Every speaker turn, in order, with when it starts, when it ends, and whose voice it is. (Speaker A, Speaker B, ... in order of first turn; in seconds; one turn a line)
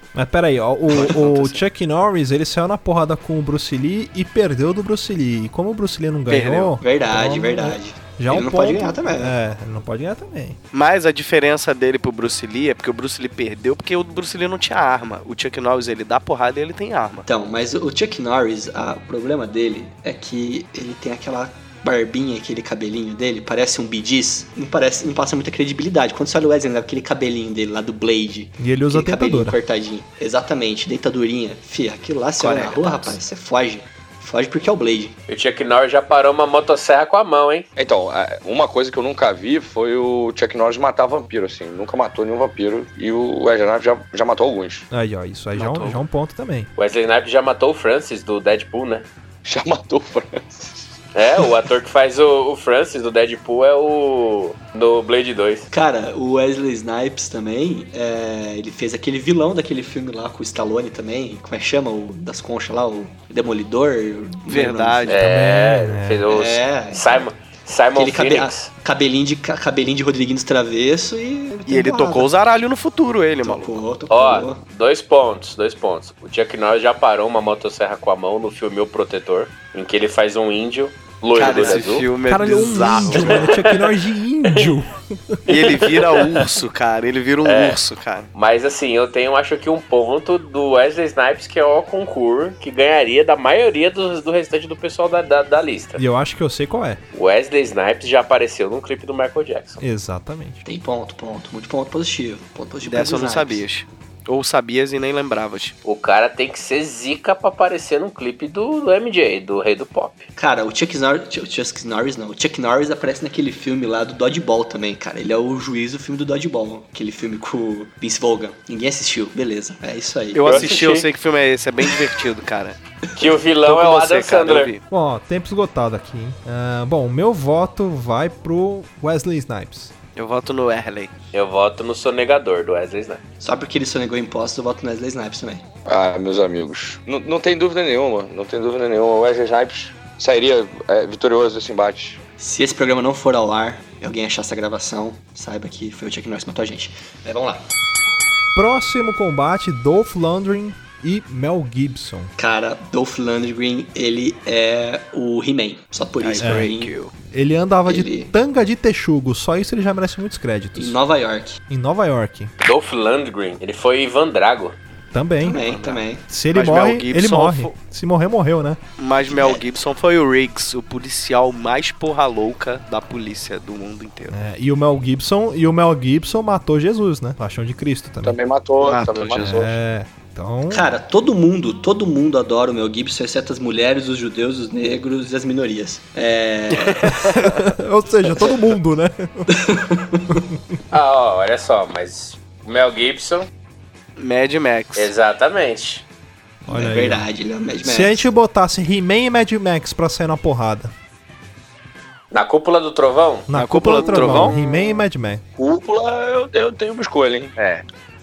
Speaker A: 0.1-10.6
Speaker B: 0.9-1.6
Speaker B: 6.3-6.8
Speaker C: 6.8-9.3
Speaker B: 10.7-17.2
Speaker C: 17.2-35.1
Speaker A: 28.6-29.6
Speaker B: 32.4-33.2
Speaker D: 35.3-37.6
Speaker E: 37.8-44.9
Speaker A: 44.9-46.7
Speaker B: 45.5-46.0
Speaker D: 46.8-49.0
Speaker E: 49.5-50.8
Speaker D: 51.1-55.7
Speaker C: 55.7-65.1
Speaker B: 64.5-65.2
Speaker D: 65.1-68.7
Speaker A: 65.2-66.3
Speaker C: 66.3-67.3
Speaker C: 67.9-72.3
Speaker B: 71.7-73.8
Speaker C: 73.4-74.6
Speaker D: 74.1-82.0
Speaker B: 81.3-83.5
Speaker C: 81.4-81.8
Speaker A: 82.3-85.4
Speaker D: 83.1-84.0
Speaker D: 85.5-86.5
Speaker B: 85.5-88.3
Speaker D: 87.4-87.8
Speaker D: 88.3-96.0
Speaker A: 96.0-97.0
Speaker D: 97.1-99.8
Speaker A: 99.8-100.6
Speaker C: 100.6-103.6
Speaker B: 102.8-105.7
Speaker D: 105.8-110.2
Speaker C: 110.4-120.7
Speaker B: 120.3-122.8
Speaker D: 120.4-121.1
Speaker D: 123.2-124.7
Speaker B: 123.6-124.8
Speaker A: 124.9-129.9
Speaker B: 130.2-131.1
Speaker D: 131.3-133.2
Speaker C: 133.4-135.6
Speaker E: 135.8-142.2
Speaker C: 142.4-147.6
Speaker A: 148.5-152.3
Speaker C: 152.4-156.9
Speaker B: 156.2-157.1
Speaker A: 156.4-156.7
Speaker A: 157.3-160.9
Speaker C: 157.8-158.3
Speaker C: 160.8-161.6
Speaker A: 161.7-162.5
Speaker D: 162.6-164.7
Speaker A: 165.1-165.6
Speaker C: 165.4-166.2
Speaker B: 165.5-167.7
Speaker A: 166.3-168.8
Speaker B: 169.0-174.3
Speaker C: 169.3-169.6
Speaker A: 174.3-178.4
Speaker E: 178.2-179.7
Speaker B: 178.8-179.7
Speaker A: 179.4-180.9
Speaker C: 180.7-187.3
Speaker B: 186.8-187.5
Speaker A: 187.1-189.5
Speaker C: 189.5-190.4
Speaker A: 190.3-190.6
Speaker D: 190.9-193.5
Speaker B: 194.2-195.1
Speaker D: 194.9-196.0
Speaker A: 196.7-197.3
Speaker C: 196.7-198.2
Speaker A: 197.8-200.9
Speaker D: 202.3-204.4
Speaker A: 203.5-205.4
Speaker B: 203.5-204.6
Speaker E: 205.6-207.5
Speaker D: 207.6-207.8